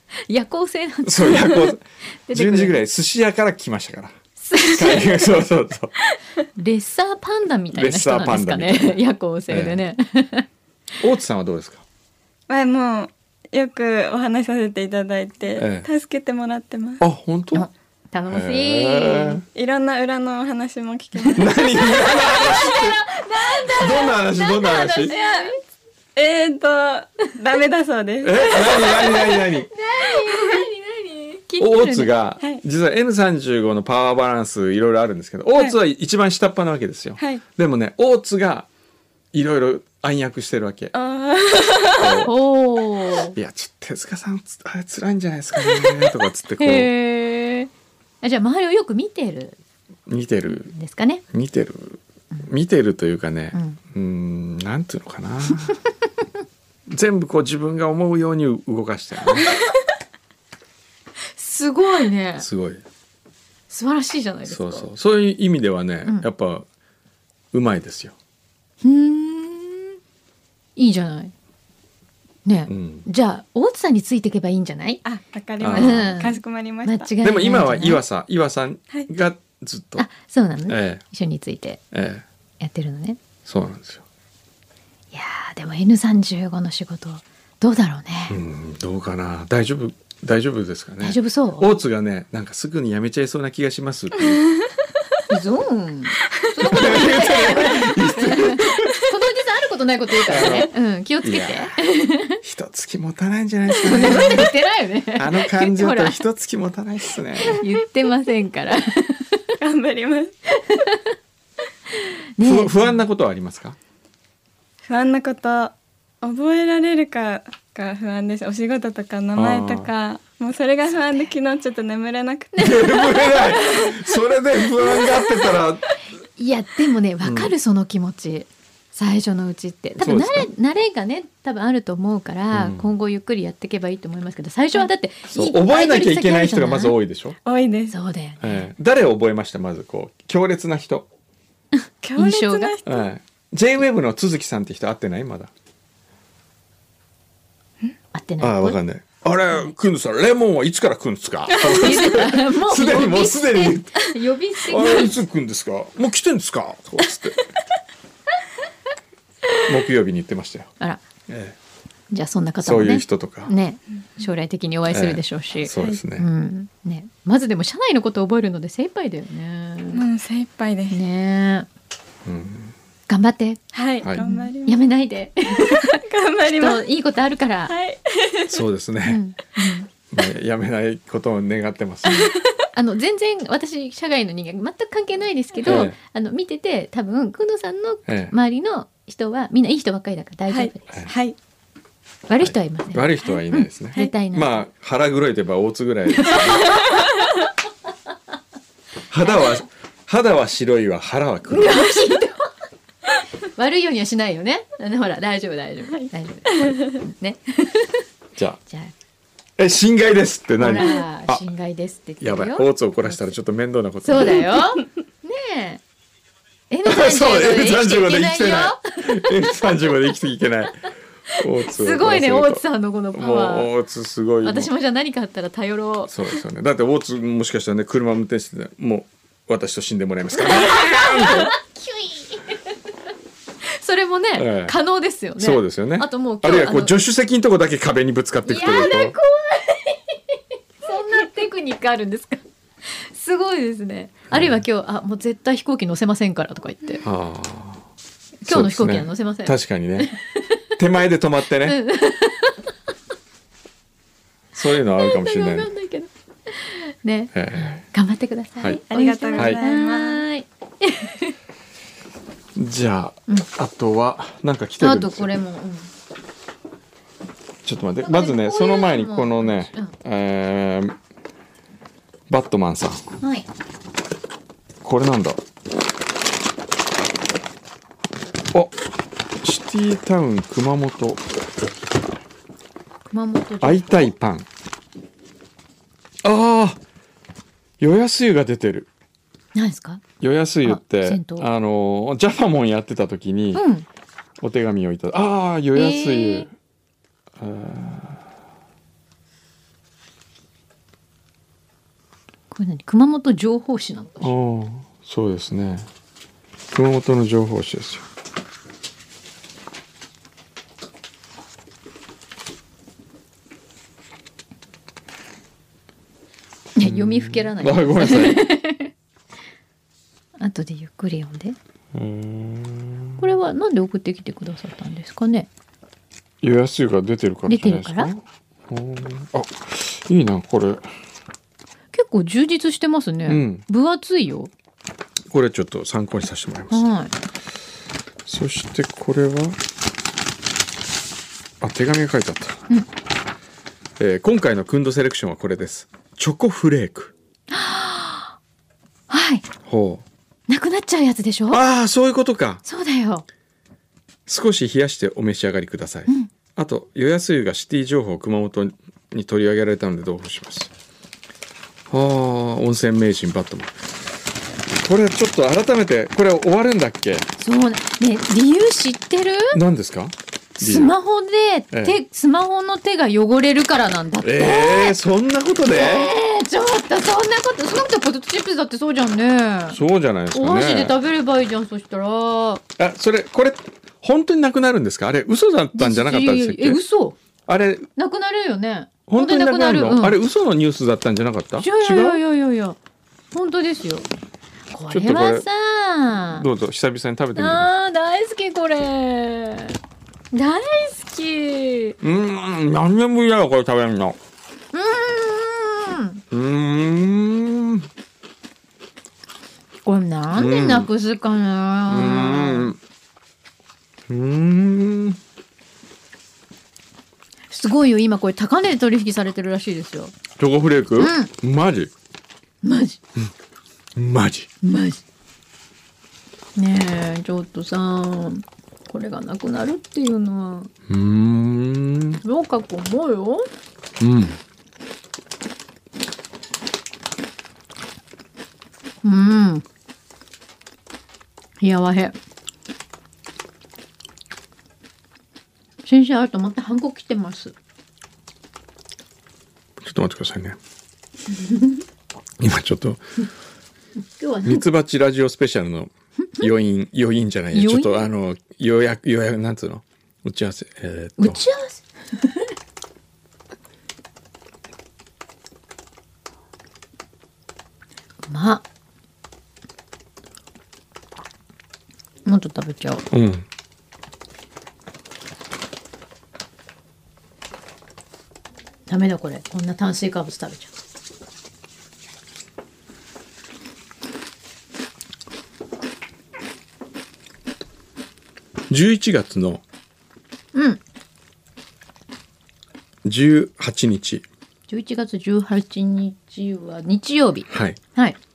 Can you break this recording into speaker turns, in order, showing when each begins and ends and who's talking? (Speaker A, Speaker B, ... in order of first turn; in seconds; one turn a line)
Speaker A: 0.3-2.8
Speaker B: 1.1-5.9
Speaker A: 4.4-5.2
Speaker A: 6.6-10.5
Speaker B: 7.7-9.8
Speaker B: 11.0-11.8
Speaker C: 12.5-17.0
Speaker B: 15.6-15.9
Speaker B: 17.0-17.7
Speaker A: 17.5-19.4
Speaker B: 18.3-19.4
Speaker C: 19.5-22.7
Speaker B: 21.4-23.0
Speaker A: 21.8-25.6
Speaker B: 23.7-25.1
Speaker C: 25.1-25.5
Speaker C: 26.2-29.4
Speaker B: 28.2-29.7
Speaker A: 29.7-32.1
Speaker C: 30.2-30.6
Speaker B: 31.6-38.7
Speaker B: 39.3-40.9
Speaker C: 40.9-42.2
Speaker B: 42.0-42.3
Speaker A: 42.2-43.4
Speaker B: 43.3-46.9
Speaker A: 46.6-47.7
Speaker A: 48.2-49.6
Speaker B: 50.1-50.7
Speaker A: 50.5-51.2
Speaker B: 51.3-55.8
Speaker A: 53.5-53.8
Speaker B: 56.9-59.5
Speaker A: 61.4-62.5
Speaker B: 62.4-62.8
Speaker A: 63.7-64.9
Speaker B: 64.5-66.7
Speaker B: 67.5-68.2
Speaker A: 68.8-70.0
Speaker A: 70.8-71.3
Speaker A: 72.5-75.0
Speaker B: 72.7-73.1
Speaker C: 75.0-77.1
Speaker B: 75.6-76.2
Speaker A: 75.7-78.0
Speaker B: 77.2-80.1
Speaker A: 80.0-81.8
Speaker B: 80.7-81.0
Speaker B: 81.9-82.2
Speaker A: 82.6-83.2
Speaker B: 83.5-84.0
Speaker A: 85.1-88.4
Speaker B: 88.3-94.5
Speaker A: 91.0-91.7
Speaker A: 95.3-102.4
Speaker B: 96.7-99.0
Speaker B: 100.3-100.7
Speaker B: 101.2-101.8
Speaker B: 102.4-104.5
Speaker A: 103.8-106.2
Speaker C: 104.0-104.4
Speaker B: 105.2-107.6
Speaker A: 107.5-109.5
Speaker C: 109.6-110.3
Speaker A: 110.6-111.0
Speaker A: 112.4-112.9
Speaker B: 112.4-113.8
Speaker C: 114.9-122.7
Speaker B: 119.3-119.9
Speaker A: 122.6-124.1
Speaker B: 122.6-125.8
Speaker A: 124.9-125.2
Speaker A: 126.4-137.0
Speaker B: 127.2-127.5
Speaker B: 130.0-130.5
Speaker B: 132.5-132.9
Speaker B: 135.3-137.4
Speaker C: 137.4-138.0
Speaker A: 137.9-138.7
Speaker B: 138.4-141.1
Speaker C: 142.0-143.1
Speaker A: 142.2-142.8
Speaker B: 142.8-145.5
Speaker A: 148.1-148.8
Speaker B: 148.4-157.4
Speaker A: 151.5-155.2
Speaker C: 151.6-152.1
Speaker B: 159.7-160.7
Speaker B: 161.3-161.6
Speaker A: 162.1-170.0
Speaker B: 162.6-163.5
Speaker B: 164.9-166.3
Speaker C: 169.9-171.0
Speaker A: 170.9-171.7
Speaker B: 172.2-172.7
Speaker A: 173.1-177.7
Speaker C: 173.7-174.8
Speaker C: 175.6-176.8
Speaker C: 177.7-178.6
Speaker B: 178.5-179.2
Speaker A: 179.1-179.9
Speaker B: 180.1-182.3
Speaker A: 182.1-191.1
Speaker B: 185.7-186.0
Speaker B: 188.1-188.3
Speaker C: 190.5-191.4
Speaker A: 192.3-194.7
Speaker B: 192.4-196.8
Speaker A: 196.2-197.0
Speaker B: 199.1-201.9
Speaker A: 201.5-202.5
Speaker A: 203.6-208.0
Speaker B: 209.6-211.4
Speaker A: 210.6-212.7
Speaker B: 212.2-214.6
Speaker A: 214.0-215.8
Speaker A: 216.7-219.4
Speaker B: 216.8-220.8
Speaker B: 221.4-222.6
Speaker A: 221.4-223.7
Speaker B: 223.1-224.7
Speaker A: 224.4-226.2
Speaker B: 226.1-231.5
Speaker A: 230.4-232.6
Speaker A: 233.7-237.0
Speaker B: 234.4-234.8
Speaker B: 235.4-239.2
Speaker A: 238.4-247.0
Speaker B: 244.3-244.6
Speaker B: 247.0-247.8
Speaker A: 248.4-250.2
Speaker B: 248.5-250.1
Speaker B: 250.8-251.8
Speaker A: 251.6-252.7
Speaker B: 254.6-255.7
Speaker A: 254.6-261.4
Speaker B: 257.3-257.9
Speaker C: 258.9-260.2
Speaker B: 262.6-265.3
Speaker A: 264.8-265.9
Speaker B: 267.6-271.0
Speaker A: 268.0-269.9
Speaker B: 272.3-273.1
Speaker A: 273.2-273.5
Speaker B: 274.8-275.4
Speaker B: 279.4-281.2
Speaker A: 283.1-284.1
Speaker B: 283.6-284.5
Speaker B: 286.2-286.8
Speaker B: 287.8-288.9
Speaker A: 289.6-290.0
Speaker B: 290.2-293.7
Speaker A: 290.6-291.5
Speaker A: 293.5-293.9
Speaker B: 294.4-296.5
Speaker A: 295.7-296.5
Speaker B: 297.4-298.2
Speaker A: 302.5-304.3
Speaker B: 304.2-305.9
Speaker B: 306.7-308.1
Speaker A: 316.8-318.9
Speaker B: 316.8-318.4
Speaker A: 320.4-321.6
Speaker B: 321.9-323.2
Speaker A: 323.2-325.5
Speaker B: 326.4-330.9
Speaker A: 327.5-328.1
Speaker A: 331.9-334.5
Speaker B: 333.3-333.6
Speaker B: 335.3-336.9
Speaker A: 336.7-337.1
Speaker B: 338.3-339.6
Speaker B: 341.6-342.6
Speaker B: 344.0-347.1
Speaker A: 347.5-348.4
Speaker A: 349.1-349.4
Speaker B: 349.6-350.0
Speaker A: 350.5-351.6
Speaker B: 351.5-352.6
Speaker A: 352.6-353.2
Speaker B: 354.3-360.7
Speaker B: 361.9-363.8
Speaker B: 364.8-367.3
Speaker A: 367.4-369.6
Speaker B: 369.5-370.9
Speaker A: 370.6-375.0
Speaker B: 371.7-372.0
Speaker B: 374.2-376.1
Speaker A: 375.7-379.8
Speaker B: 379.7-380.9
Speaker A: 380.3-382.6
Speaker B: 382.8-386.8
Speaker A: 385.8-387.2
Speaker B: 387.5-387.9
Speaker A: 388.0-390.2
Speaker B: 389.1-392.2
Speaker A: 391.6-392.8
Speaker A: 393.3-394.1
Speaker A: 394.7-396.5
Speaker B: 394.9-395.5
Speaker B: 396.4-397.7
Speaker A: 397.4-399.8
Speaker A: 400.3-402.0
Speaker B: 402.0-404.2
Speaker A: 404.7-406.2
Speaker B: 406.3-407.9
Speaker A: 409.9-412.7
Speaker B: 410.3-410.9
Speaker B: 411.9-412.8
Speaker B: 414.1-415.2
Speaker A: 417.5-420.1
Speaker B: 420.4-421.9
Speaker A: 421.0-421.3
Speaker A: 422.6-423.0
Speaker B: 424.0-424.5
Speaker A: 424.6-425.0
Speaker A: 426.6-430.7
Speaker B: 430.9-432.2
Speaker A: 432.2-433.5
Speaker B: 434.0-434.4
Speaker A: 439.0-439.6
Speaker A: 441.6-442.2
Speaker A: 445.9-447.5
Speaker B: 449.8-450.6
Speaker A: 451.4-451.8
Speaker B: 452.4-453.0
Speaker A: 454.2-454.7
Speaker B: 454.4-461.4
Speaker A: 457.5-458.0
Speaker A: 461.2-462.5
Speaker A: 468.3-468.6
Speaker A: 472.2-473.1
Speaker B: 473.1-473.5
Speaker A: 478.9-480.7
Speaker B: 488.7-489.6
Speaker A: 490.5-490.8
Speaker B: 493.0-494.3
Speaker A: 494.7-498.2
Speaker B: 497.5-497.8